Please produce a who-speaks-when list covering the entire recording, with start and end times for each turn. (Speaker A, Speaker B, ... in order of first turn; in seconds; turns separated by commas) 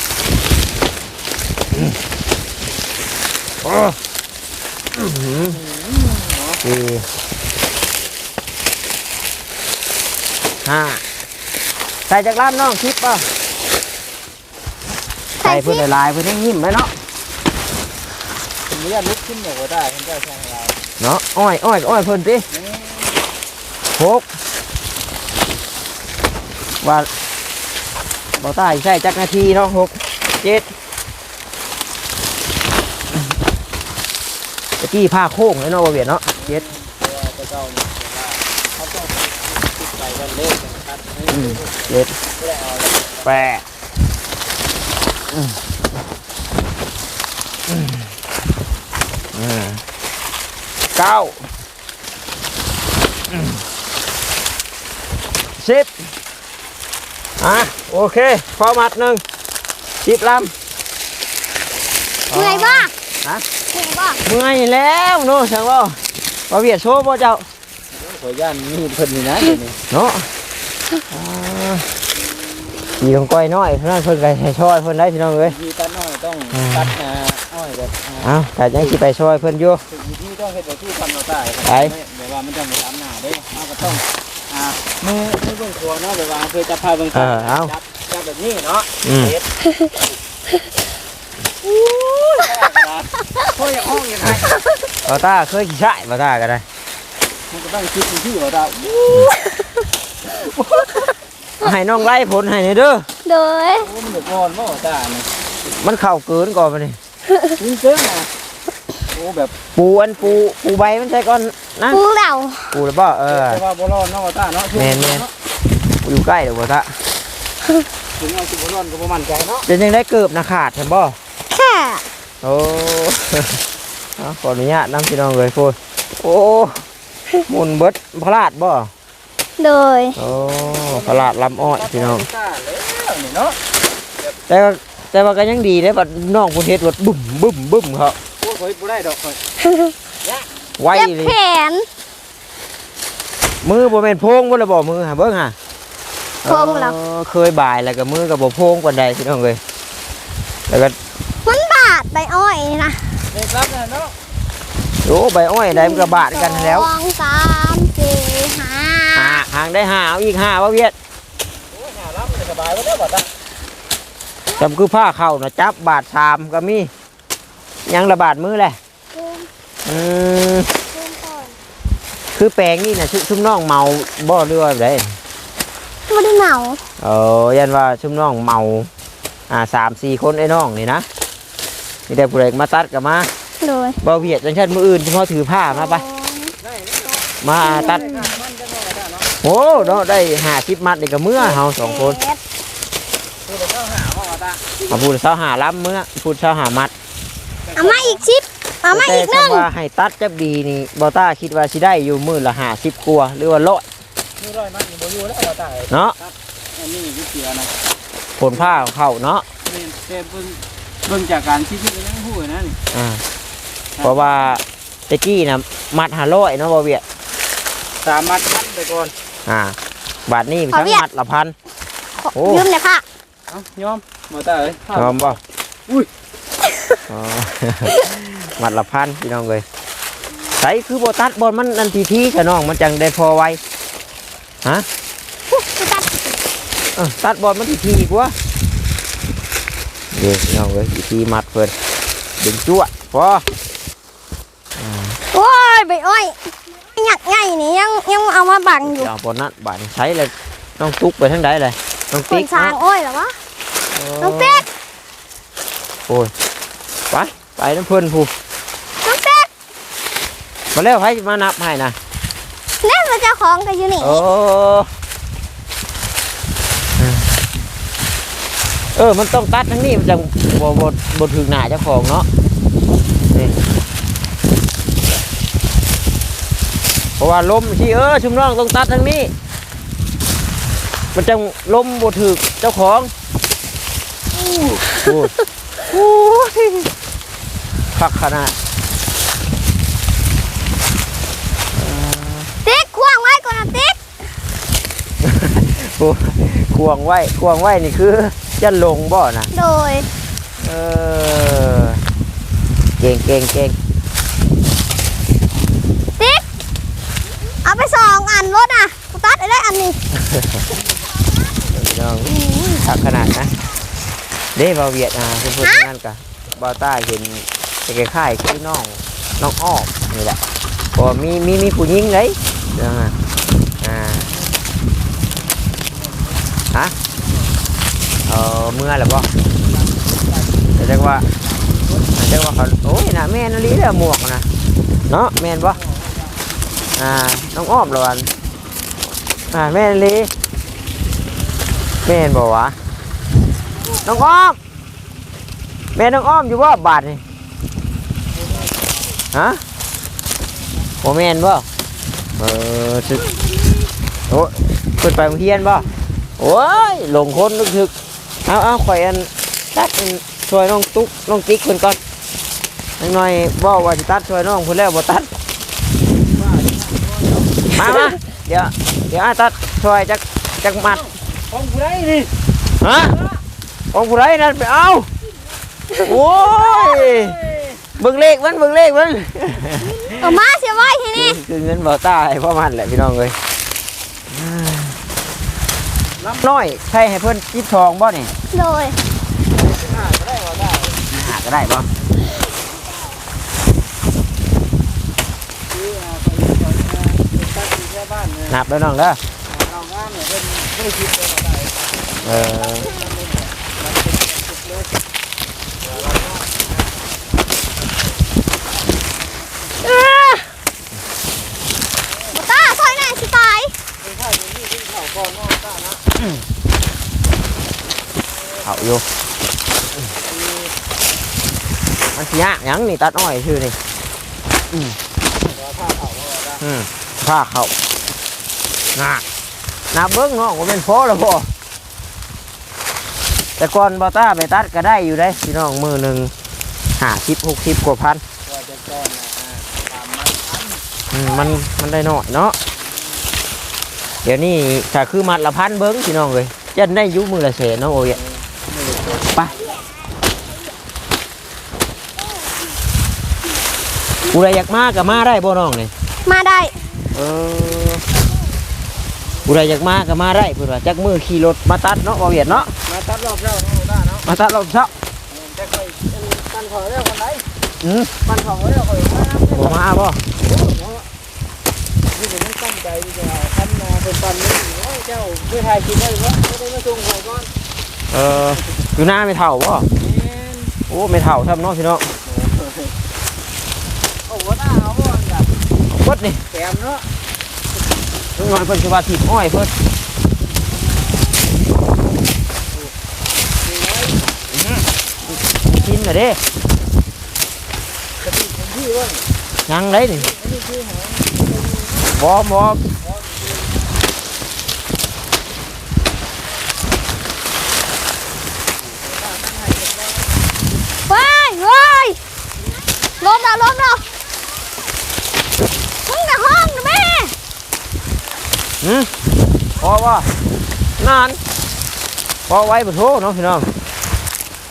Speaker A: 3.6-4.0, Speaker A: 5.0-5.6, Speaker B: 5.5-6.6, Speaker A: 6.6-7.1, Speaker A: 10.7-11.0, Speaker A: 12.1-13.3, Speaker C: 15.4-15.8, Speaker A: 15.4-16.9, Speaker B: 18.7-20.8, Speaker A: 21.0-22.5, Speaker B: 22.5-23.2, Speaker A: 24.0-24.3, Speaker A: 26.8-27.1, Speaker A: 28.4-30.7, Speaker A: 34.8-36.6, Speaker B: 36.4-43.5, Speaker A: 41.3-42.2, Speaker A: 43.2-43.6, Speaker A: 45.3-45.6, Speaker A: 47.7-48.1, Speaker A: 49.3-49.8, Speaker A: 50.9-51.4, Speaker A: 53.3-53.6, Speaker A: 55.6-55.9, Speaker A: 57.4-59.2, Speaker A: 60.0-60.5, Speaker A: 62.3-63.5, Speaker C: 62.3-62.9, Speaker C: 63.7-64.2, Speaker A: 64.2-67.5, Speaker B: 67.9-69.8, Speaker A: 69.9-70.3, Speaker A: 71.1-71.9, Speaker A: 73.0-75.6, Speaker B: 75.4-79.0, Speaker A: 76.5-76.9, Speaker A: 78.2-79.8, Speaker B: 79.9-89.5, Speaker A: 81.7-81.9, Speaker A: 87.1-87.7, Speaker A: 89.0-89.4, Speaker B: 92.3-94.6, Speaker A: 95.1-96.7, Speaker B: 97.5-99.3, Speaker B: 100.3-101.1, Speaker A: 101.6-103.1, Speaker C: 103.2-103.9, Speaker B: 103.8-105.3, Speaker A: 105.7-107.0, Speaker B: 107.6-108.3, Speaker B: 109.1-109.5, Speaker A: 109.8-112.0, Speaker C: 111.9-112.8, Speaker A: 112.7-113.6, Speaker B: 113.3-115.3, Speaker A: 114.8-115.3, Speaker A: 116.0-117.0, Speaker B: 118.2-119.7, Speaker A: 119.7-121.2, Speaker C: 121.5-122.0, Speaker A: 122.4-123.6, Speaker A: 124.2-126.8, Speaker A: 127.5-128.9, Speaker C: 129.6-130.2, Speaker A: 130.2-132.3, Speaker B: 130.2-133.6, Speaker A: 134.5-138.2, Speaker B: 138.4-139.4, Speaker A: 140.8-141.3, Speaker C: 140.9-141.9, Speaker A: 143.6-145.6, Speaker A: 146.4-149.6, Speaker C: 146.5-146.9, Speaker A: 150.7-151.0, Speaker C: 151.4-153.2, Speaker B: 153.3-154.2, Speaker A: 155.1-156.9, Speaker C: 155.7-159.4, Speaker A: 159.1-160.9, Speaker B: 161.6-163.3, Speaker A: 164.6-166.9, Speaker A: 167.9-168.8, Speaker C: 169.1-169.5, Speaker A: 169.9-170.7, Speaker C: 170.9-171.6, Speaker A: 172.4-175.2, Speaker C: 176.1-176.8, Speaker A: 177.0-178.9, Speaker A: 179.5-181.1, Speaker A: 182.1-183.3, Speaker C: 183.6-184.0, Speaker A: 184.0-186.0, Speaker C: 185.7-186.6, Speaker B: 186.6-189.3, Speaker A: 187.4-188.0, Speaker C: 187.6-188.4, Speaker A: 189.4-192.2, Speaker C: 191.4-192.4, Speaker B: 193.4-194.6, Speaker A: 194.9-196.9, Speaker B: 197.7-198.3, Speaker C: 197.8-199.7, Speaker A: 198.9-203.8, Speaker B: 204.4-207.7, Speaker A: 205.9-206.2, Speaker A: 208.4-209.5, Speaker B: 208.5-208.9, Speaker B: 209.7-212.8, Speaker A: 212.9-213.2, Speaker B: 214.0-214.5, Speaker A: 214.0-217.0, Speaker B: 218.0-219.1, Speaker A: 219.5-221.6, Speaker C: 220.7-221.0, Speaker C: 222.2-223.0, Speaker A: 222.3-222.7, Speaker B: 223.5-226.1, Speaker A: 224.9-225.4, Speaker A: 227.1-229.7, Speaker A: 230.6-233.6, Speaker C: 235.5-236.4, Speaker A: 237.0-238.3, Speaker A: 240.1-241.7, Speaker A: 242.4-243.4, Speaker A: 244.8-245.2, Speaker C: 245.3-249.1, Speaker A: 248.8-252.8, Speaker C: 252.3-253.4, Speaker A: 253.9-254.7, Speaker C: 254.2-254.7, Speaker A: 256.1-256.3, Speaker A: 257.1-258.3, Speaker C: 259.0-259.5, Speaker A: 260.7-262.0, Speaker C: 262.8-264.2, Speaker A: 264.0-264.9, Speaker A: 267.0-267.3, Speaker A: 269.0-272.3, Speaker A: 277.2-279.3, Speaker A: 281.1-283.1, Speaker C: 284.8-285.1, Speaker A: 285.0-285.3, Speaker A: 285.9-286.9, Speaker A: 287.9-288.6, Speaker A: 291.7-292.5, Speaker C: 292.6-294.0, Speaker A: 295.2-299.5, Speaker C: 299.5-300.1, Speaker A: 300.6-302.0, Speaker A: 303.0-303.8, Speaker C: 306.2-306.4, Speaker C: 307.6-310.0, Speaker A: 310.1-310.6, Speaker A: 311.7-313.6, Speaker A: 314.6-320.4, Speaker A: 320.9-323.2, Speaker A: 323.8-324.3, Speaker B: 325.9-326.5, Speaker A: 328.3-329.3, Speaker B: 329.6-330.8, Speaker A: 330.8-331.3, Speaker B: 331.4-332.1, Speaker A: 332.1-334.5, Speaker A: 335.1-335.8, Speaker B: 335.7-336.6, Speaker A: 337.0-338.3, Speaker A: 339.5-340.3, Speaker A: 342.0-342.8, Speaker C: 343.9-344.2, Speaker A: 344.0-344.6, Speaker A: 346.0-347.2, Speaker B: 348.3-349.1, Speaker A: 349.3-349.6, Speaker A: 351.0-351.7, Speaker A: 352.4-353.3, Speaker C: 353.1-353.9, Speaker A: 354.3-355.9, Speaker A: 356.4-357.9, Speaker A: 358.4-362.0, Speaker A: 363.0-365.3, Speaker B: 366.2-368.1, Speaker A: 367.7-371.1, Speaker B: 370.9-372.3, Speaker A: 372.8-373.2, Speaker B: 373.1-373.4, Speaker A: 373.9-375.1, Speaker A: 376.0-377.4, Speaker B: 376.8-377.8, Speaker A: 378.0-380.1, Speaker C: 379.9-381.4, Speaker A: 381.1-383.4, Speaker A: 384.3-385.0, Speaker B: 386.2-386.5, Speaker A: 386.4-388.3, Speaker C: 388.5-389.0, Speaker B: 389.5-391.0, Speaker A: 391.1-391.9, Speaker B: 395.7-398.6, Speaker A: 398.5-399.2, Speaker B: 399.5-404.9, Speaker A: 402.2-402.9, Speaker B: 405.8-406.8, Speaker C: 409.9-410.4, Speaker B: 412.1-413.2, Speaker C: 412.3-413.8, Speaker B: 414.0-416.0, Speaker A: 416.2-416.4, Speaker B: 418.3-419.0, Speaker A: 418.6-419.0, Speaker B: 420.1-420.8, Speaker A: 422.1-423.8, Speaker A: 424.7-425.0, Speaker B: 425.5-426.6, Speaker A: 426.6-427.7, Speaker A: 428.9-429.2, Speaker A: 429.9-431.5, Speaker A: 433.6-436.3, Speaker A: 437.0-438.2, Speaker B: 438.5-440.8, Speaker A: 441.1-442.6, Speaker A: 444.2-448.2, Speaker B: 448.1-449.4, Speaker A: 449.4-449.6, Speaker C: 449.6-449.9, Speaker A: 454.3-455.9, Speaker C: 456.2-456.8, Speaker A: 457.1-458.0, Speaker A: 459.5-462.7, Speaker B: 462.5-464.3, Speaker A: 464.2-464.9, Speaker B: 465.3-467.5, Speaker A: 467.8-468.1, Speaker B: 468.2-471.1, Speaker A: 469.5-470.2, Speaker B: 472.1-477.5, Speaker A: 478.1-479.9, Speaker B: 480.0-480.8, Speaker A: 480.9-482.1, Speaker B: 482.2-483.0, Speaker B: 484.2-485.6, Speaker A: 485.9-486.4, Speaker B: 486.5-487.1, Speaker A: 488.4-489.7, Speaker B: 490.4-491.0, Speaker B: 493.6-494.3, Speaker A: 494.5-496.4, Speaker B: 498.2-499.3, Speaker A: 499.7-500.3, Speaker B: 500.1-502.1, Speaker A: 502.2-502.8, Speaker B: 503.0-504.0, Speaker B: 508.8-510.4, Speaker C: 511.1-512.2, Speaker C: 513.2-514.1, Speaker C: 516.1-517.3, Speaker A: 518.8-519.1, Speaker A: 519.8-520.3, Speaker A: 521.0-521.4, Speaker A: 522.5-523.7